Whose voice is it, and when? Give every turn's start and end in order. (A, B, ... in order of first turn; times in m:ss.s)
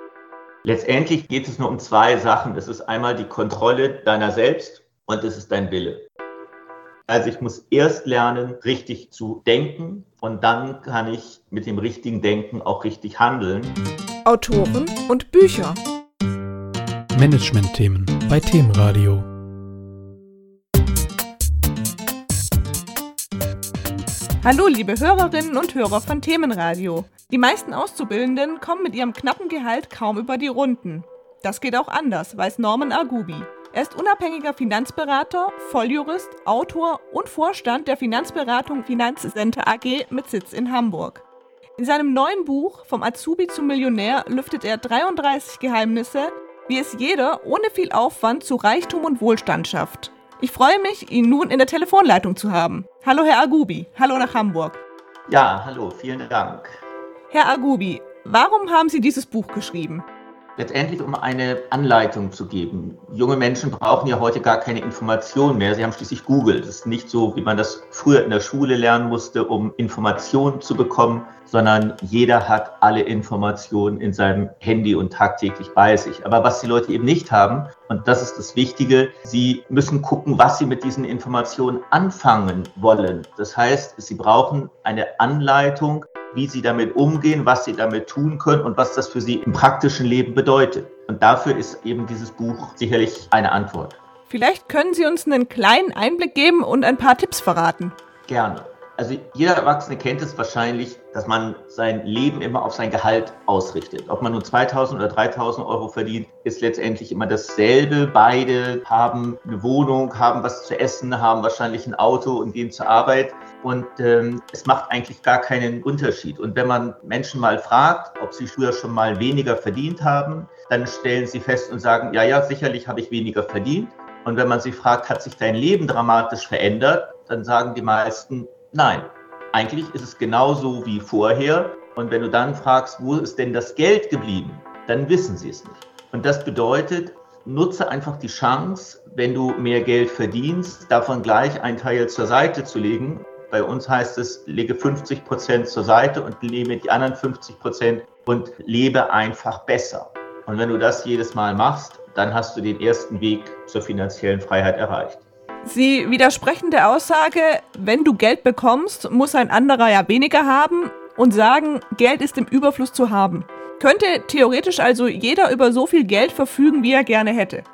0:00.6-0:06.1 A
0:07.1-0:13.8 A
0:14.2-0:15.8 B
0:17.1-0:19.3 C
0:24.4-0:41.2 B
0:41.8-0:54.8 B
0:55.3-0:56.8 A
0:57.3-1:00.0 B
1:00.6-1:34.0 A
1:34.3-1:38.0 B
1:38.3-2:35.2 A
2:35.7-2:47.6 B